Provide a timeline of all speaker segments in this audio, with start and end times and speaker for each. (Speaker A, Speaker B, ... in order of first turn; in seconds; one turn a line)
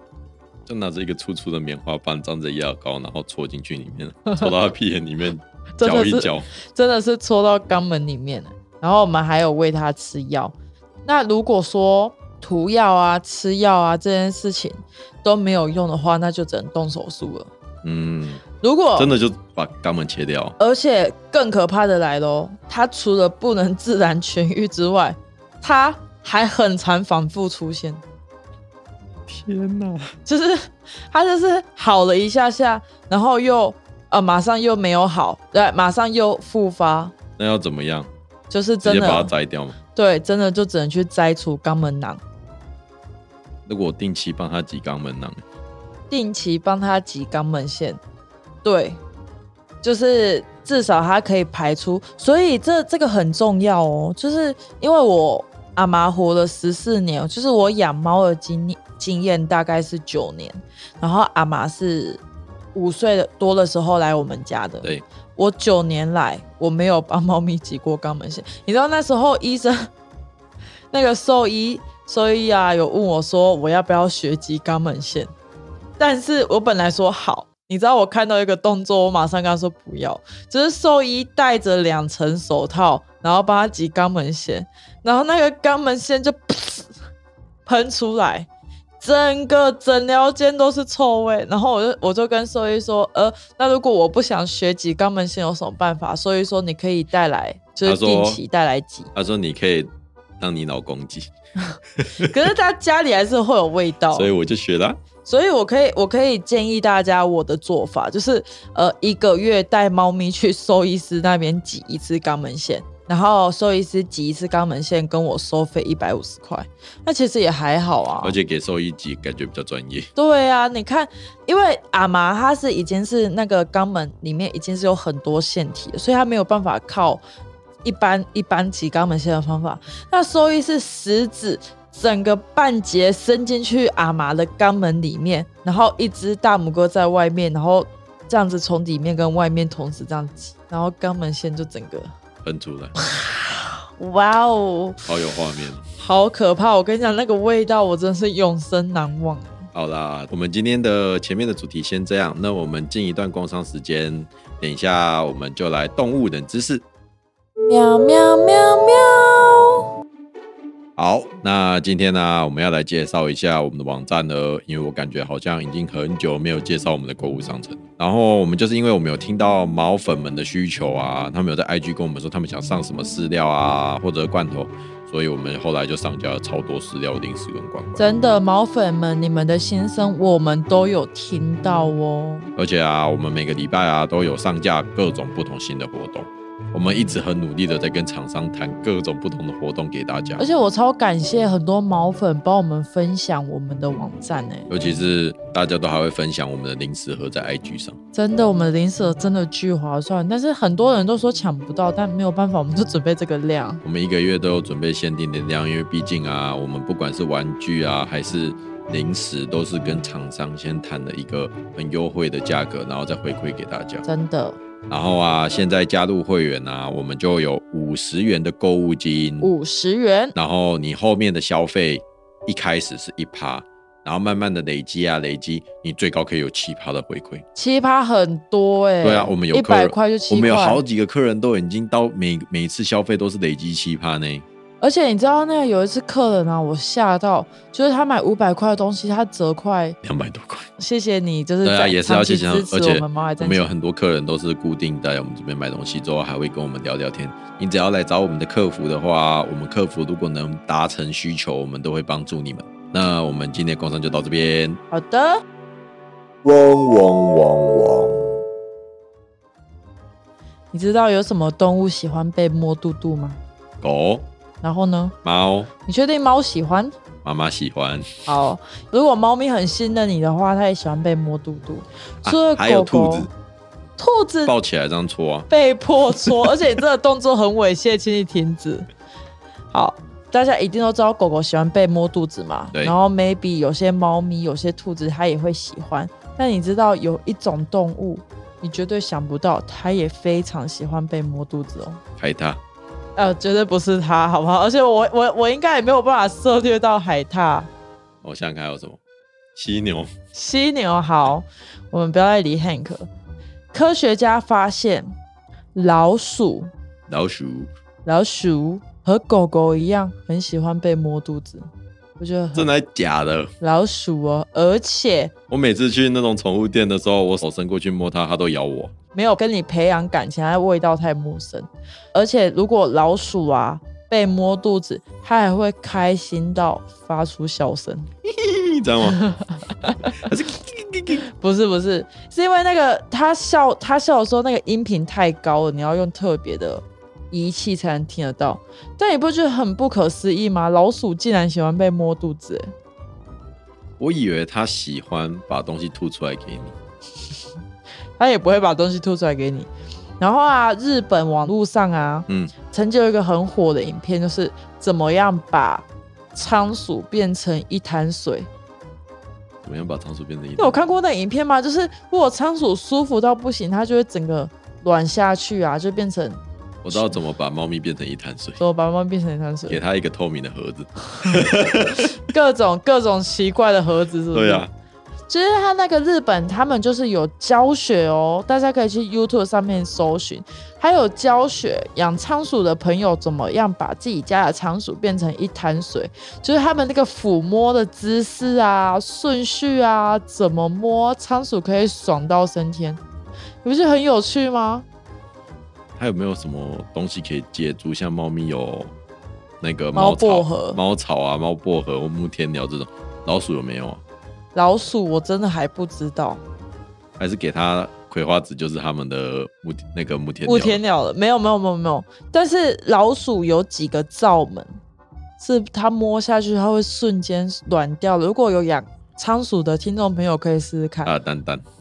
Speaker A: 0.7-6.5
Speaker B: 5.8-17.5
Speaker A: 17.8-18.4
Speaker B: 18.6-19.1
Speaker A: 19.0-20.5
Speaker B: 20.6-28.0
Speaker A: 29.3-30.1
Speaker B: 30.2-37.1
Speaker A: 37.4-38.1
Speaker B: 38.5-39.3
Speaker A: 38.8-39.8
Speaker B: 39.9-42.2
Speaker A: 43.6-45.4
Speaker B: 46.1-48.0
Speaker B: 48.6-49.0
Speaker B: 49.8-62.2
Speaker B: 62.7-69.9
Speaker B: 70.9-75.3
Speaker B: 76.0-86.9
Speaker B: 87.7-88.5
Speaker B: 89.0-99.1
Speaker A: 97.8-98.4
Speaker A: 99.1-101.3
Speaker A: 102.0-102.3
Speaker B: 102.2-104.3
Speaker A: 104.1-105.0
Speaker B: 105.2-118.3
Speaker A: 118.2-120.1
Speaker B: 120.2-127.2
Speaker B: 127.8-142.1
Speaker A: 142.4-142.9
Speaker B: 143.0-145.0
Speaker A: 145.1-145.8
Speaker B: 146.0-149.7
Speaker A: 149.7-156.8
Speaker B: 157.6-159.8
Speaker A: 160.9-178.0
Speaker B: 178.0-182.5
Speaker A: 182.6-190.4
Speaker B: 190.4-194.7
Speaker A: 194.7-198.0
Speaker B: 198.1-203.8
Speaker A: 203.8-214.1
Speaker B: 214.1-214.6
Speaker A: 214.9-219.5
Speaker B: 219.4-220.3
Speaker A: 220.3-227.4
Speaker B: 227.5-230.8
Speaker A: 229.0-234.4
Speaker B: 234.8-240.0
Speaker A: 240.0-240.7
Speaker B: 240.8-243.6
Speaker A: 241.6-254.8
Speaker B: 254.9-255.4
Speaker A: 256.4-258.4
Speaker B: 260.7-263.4
Speaker A: 263.8-264.2
Speaker B: 264.6-265.1
Speaker A: 265.2-265.7
Speaker B: 265.9-266.9
Speaker A: 267.2-268.1
Speaker B: 268.2-273.3
Speaker A: 272.2-273.3
Speaker B: 274.0-274.5
Speaker A: 274.4-275.5
Speaker B: 275.5-278.9
Speaker A: 276.1-276.5
Speaker B: 279.7-292.0
Speaker A: 292.2-292.6
Speaker B: 293.1-297.7
Speaker A: 298.2-299.0
Speaker A: 299.5-300.1
Speaker B: 300.3-303.1
Speaker B: 303.7-305.1
Speaker B: 305.7-306.7
Speaker A: 307.1-307.7
Speaker B: 308.1-311.7
Speaker B: 312.2-312.7
Speaker A: 312.5-313.5
Speaker B: 313.6-315.3
Speaker A: 315.5-318.9
Speaker B: 319.1-328.1
Speaker A: 328.2-329.2
Speaker B: 329.1-330.1
Speaker A: 330.0-331.2
Speaker B: 331.3-342.7
Speaker A: 344.0-346.7
Speaker B: 348.2-358.5
Speaker A: 352.3-352.5
Speaker A: 359.6-360.8
Speaker B: 360.6-367.1
Speaker A: 366.8-368.6
Speaker B: 368.6-369.8
Speaker A: 369.7-372.1
Speaker B: 371.9-374.6
Speaker A: 374.3-374.7
Speaker B: 375.3-393.0
Speaker B: 393.6-394.8
Speaker A: 396.0-398.9
Speaker A: 399.6-404.0
Speaker B: 399.9-400.8
Speaker B: 404.5-406.4
Speaker A: 407.2-410.8
Speaker B: 410.4-414.7
Speaker B: 415.4-421.1
Speaker A: 421.0-421.6